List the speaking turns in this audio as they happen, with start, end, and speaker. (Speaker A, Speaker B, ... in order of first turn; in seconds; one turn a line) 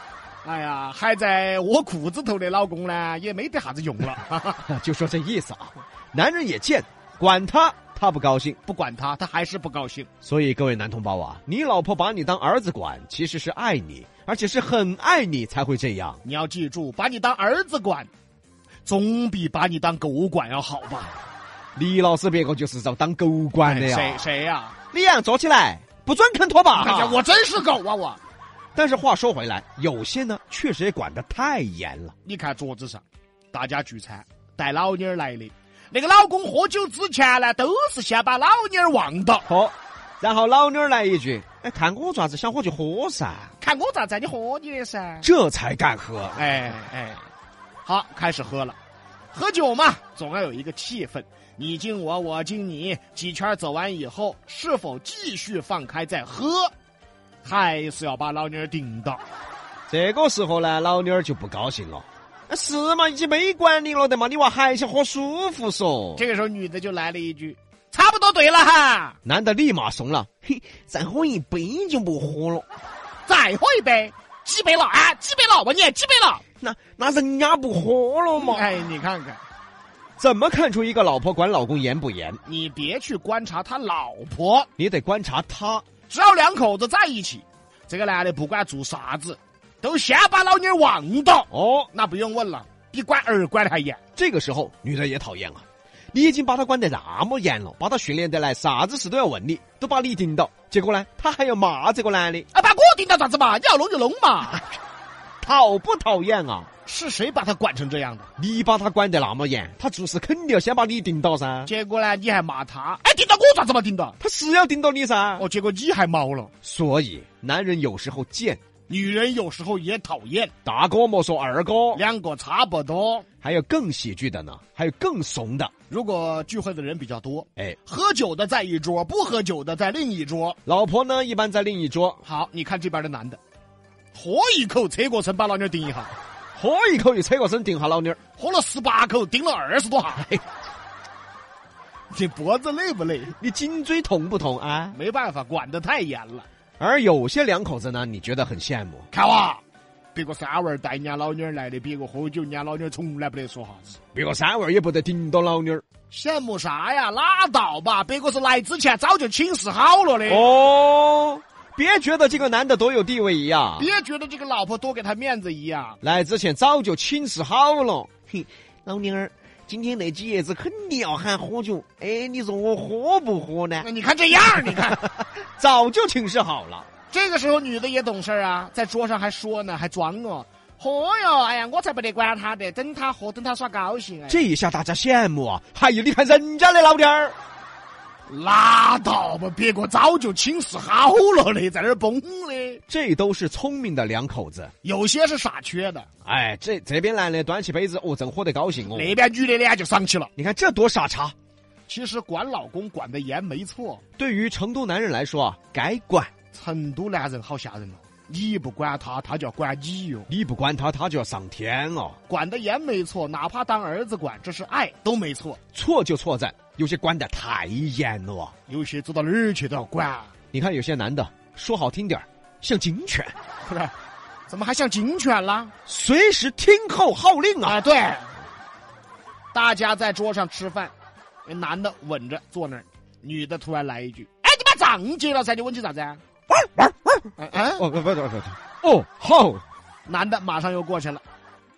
Speaker A: 0.4-4.6
Speaker B: 4.6-8.6
Speaker A: 8.7-10.1
Speaker B: 10.2-16.2
Speaker A: 16.2-18.1
Speaker A: 18.9-21.1
Speaker B: 21.8-24.2
Speaker A: 23.6-24.8
Speaker B: 24.9-27.2
Speaker A: 26.7-28.2
Speaker B: 28.8-32.1
Speaker A: 32.2-39.4
Speaker B: 39.5-43.5
Speaker A: 43.6-45.3
Speaker B: 45.2-46.4
Speaker A: 46.3-47.2
Speaker A: 47.9-48.8
Speaker A: 49.3-56.7
Speaker A: 57.4-59.2
Speaker B: 59.9-66.2
Speaker A: 66.2-69.2
Speaker B: 69.2-72.7
Speaker A: 73.2-76.4
Speaker B: 76.6-78.7
Speaker A: 78.4-79.4
Speaker B: 80.2-82.4
Speaker A: 82.5-84.7
Speaker B: 84.8-85.8
Speaker A: 86.1-94.0
Speaker B: 91.5-91.9
Speaker B: 94.2-102.5
Speaker A: 102.5-104.7
Speaker B: 105.4-106.7
Speaker A: 106.8-108.3
Speaker B: 108.4-111.7
Speaker A: 111.7-114.2
Speaker B: 114.2-115.4
Speaker A: 115.4-116.5
Speaker B: 116.6-118.6
Speaker A: 118.9-120.5
Speaker B: 120.6-122.0
Speaker A: 121.9-123.2
Speaker B: 123.4-125.7
Speaker A: 125.9-130.6
Speaker B: 130.7-132.2
Speaker A: 132.2-133.4
Speaker A: 134.1-136.1
Speaker B: 136.6-138.2
Speaker A: 138.4-140.4
Speaker A: 142.1-143.3
Speaker B: 143.4-145.0
Speaker A: 144.9-146.5
Speaker B: 146.8-149.1
Speaker A: 149.1-149.6
Speaker A: 150.1-154.0
Speaker B: 154.1-155.8
Speaker A: 156.1-160.5
Speaker B: 160.3-163.9
Speaker A: 163.8-166.0
Speaker B: 166.0-173.9
Speaker A: 173.8-175.1
Speaker B: 174.7-176.9
Speaker A: 177.1-184.4
Speaker B: 184.3-187.4
Speaker A: 188.3-192.8
Speaker B: 192.9-194.7
Speaker A: 194.8-196.1
Speaker B: 196.2-199.1
Speaker A: 198.9-200.3
Speaker B: 200.4-201.3
Speaker A: 201.9-204.0
Speaker B: 204.2-206.3
Speaker A: 206.5-210.3
Speaker B: 210.3-212.2
Speaker A: 212.3-215.6
Speaker B: 215.7-218.5
Speaker A: 218.7-220.3
Speaker B: 220.5-223.3
Speaker A: 223.6-223.9
Speaker A: 224.5-225.7
Speaker B: 225.9-227.8
Speaker A: 227.6-228.3
Speaker A: 229.5-230.9
Speaker A: 231.4-236.2
Speaker B: 236.5-239.6
Speaker A: 237.4-237.9
Speaker A: 240.1-241.2